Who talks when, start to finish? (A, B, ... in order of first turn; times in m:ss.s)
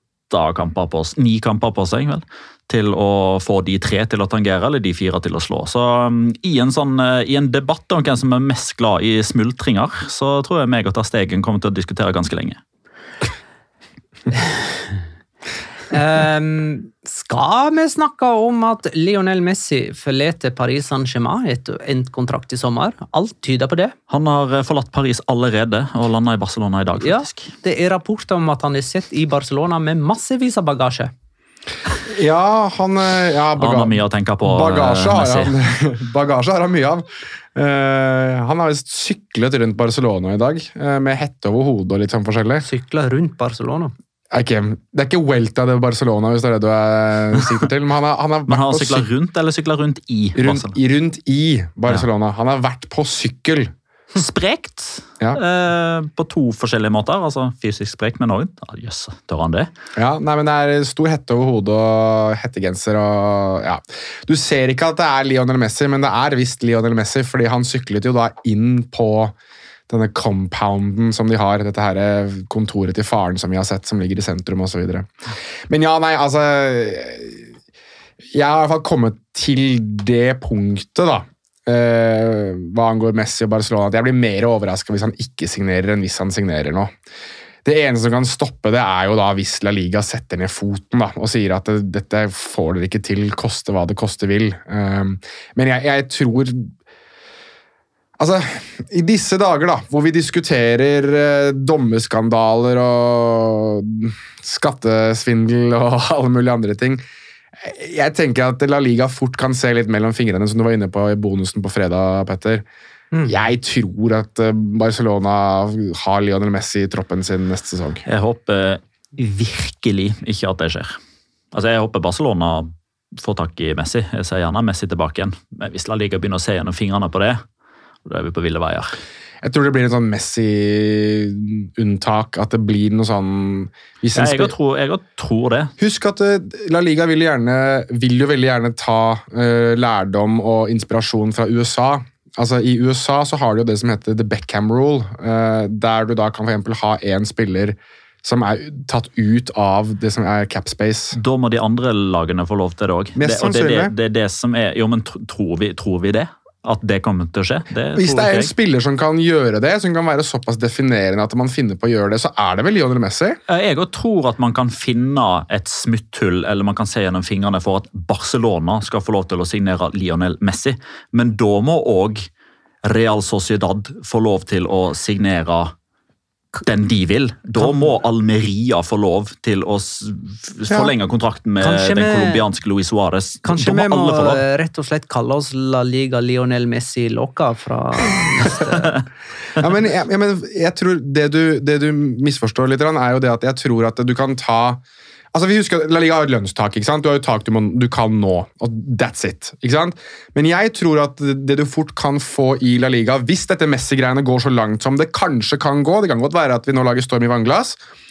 0:00.3-0:12.6 A
0:15.9-0:23.9 B
0:24.1-0:27.5 A
0:27.0-0:31.1 B
0:32.1-0:42.6 C
0:33.6-0:35.5 A
0:42.6-0:43.9 B
0:44.3-0:49.1 C
0:48.5-0:50.8 A
0:50.4-0:53.7 C
0:54.2-0:59.7 A
1:00.0-1:09.4 C
1:09.9-1:15.1 C
1:15.7-1:17.5 C
1:18.3-1:26.9 C
1:27.6-1:36.7 C
1:38.2-1:47.0 C
1:47.6-1:52.6 C
1:53.3-1:58.0 C
1:58.1-2:01.0 A
2:01.5-2:07.4 A
2:08.0-2:09.0 A
2:09.4-2:14.5 C
2:14.2-2:15.7 A
2:15.8-2:31.2 C
2:31.1-2:38.5 A
2:33.2-2:33.9 C
2:38.0-2:43.4 C
2:43.5-2:52.3 A
2:52.8-2:55.7 A
2:56.7-3:04.4 A
3:01.6-3:02.4 B
3:03.4-3:08.9 B
3:09.6-3:14.8 C
3:15.3-3:27.8 C